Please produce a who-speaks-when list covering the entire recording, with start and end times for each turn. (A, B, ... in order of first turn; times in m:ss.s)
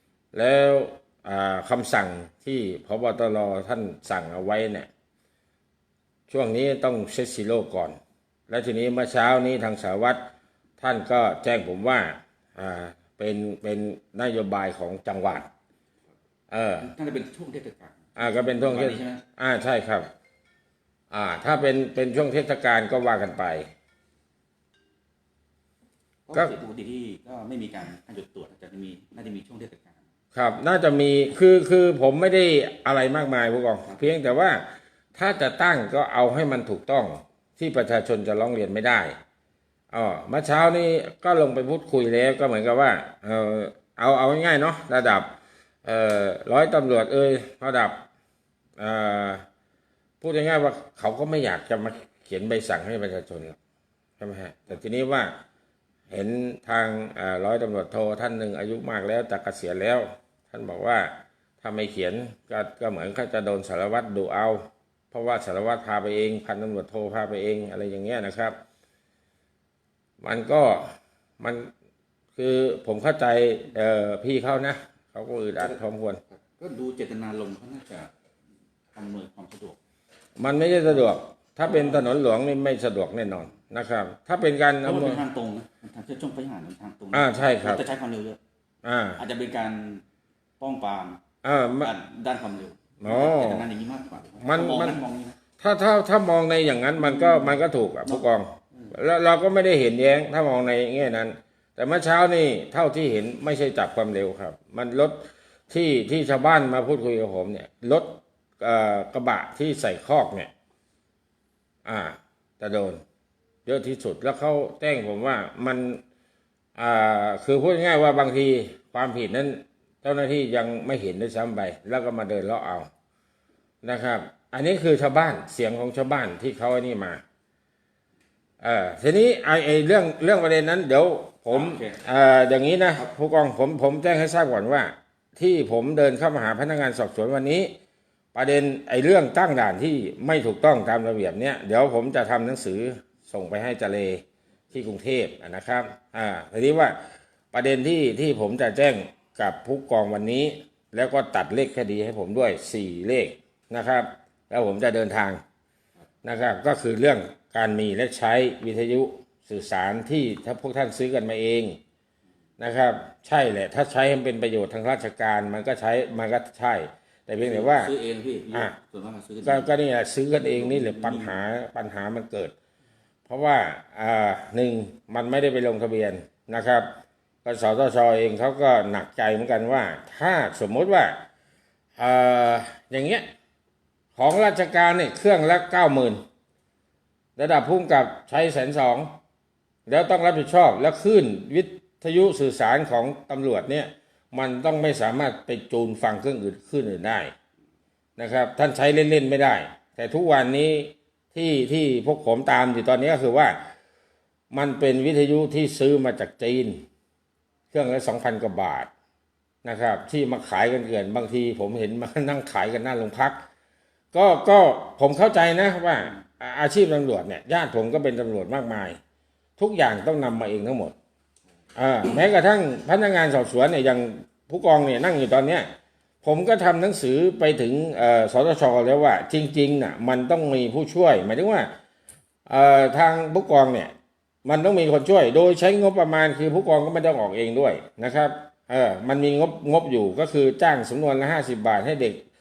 0:00.3-0:04.9 A
0:06.3-0:10.3 A
0:10.8-0:15.5 A
0:16.5-0:16.9 A
0:16.8-0:19.2 B
0:18.2-0:20.1 A
0:21.1-0:23.7 A
0:26.3-0:30.0 B
0:30.3-0:39.1 A
0:39.9-0:48.0 A
0:48.8-0:49.4 A
0:50.2-0:53.6 A
0:54.2-0:55.3 A
0:56.1-1:08.6 A
1:10.2-1:11.7 A
1:12.4-1:16.2 A
1:16.5-1:18.1 B
1:18.9-1:19.8 B
1:20.4-1:25.2 A
1:24.8-1:28.4 B
1:27.1-1:27.8 A
1:28.8-1:29.2 A
1:29.2-1:30.0 B
1:30.6-1:31.2 B
1:31.4-1:31.9 A
1:31.8-1:35.4 B
1:33.0-1:33.6 A
1:34.4-1:35.0 A
1:35.6-1:50.5 A
1:37.0-1:38.2 B
1:51.8-1:53.0 A
1:53.6-1:56.0 A
1:56.8-2:02.9 A
2:03.8-2:07.2 A
2:08.6-2:17.7 A
2:11.5-2:12.0 B
2:18.3-2:27.0 A
2:27.5-2:35.4 A
2:36.2-2:41.8 A
2:42.6-2:47.9 A
2:47.4-2:49.7 B
2:49.4-2:52.5 A
2:50.5-2:51.3 B
2:53.3-2:56.9 A
2:57.4-3:01.2 A
3:02.0-3:03.2 A
3:04.2-3:06.2 A
3:07.4-3:09.1 A
3:09.9-3:17.3 A
3:18.2-3:23.6 A
3:24.5-3:26.8 A
3:27.7-3:28.9 A
3:29.6-3:33.4 A
3:34.1-3:39.0 A
3:39.6-3:40.9 A
3:41.8-3:45.7 A
3:46.2-3:51.7 A
3:52.5-3:53.9 A
3:54.4-4:02.2 A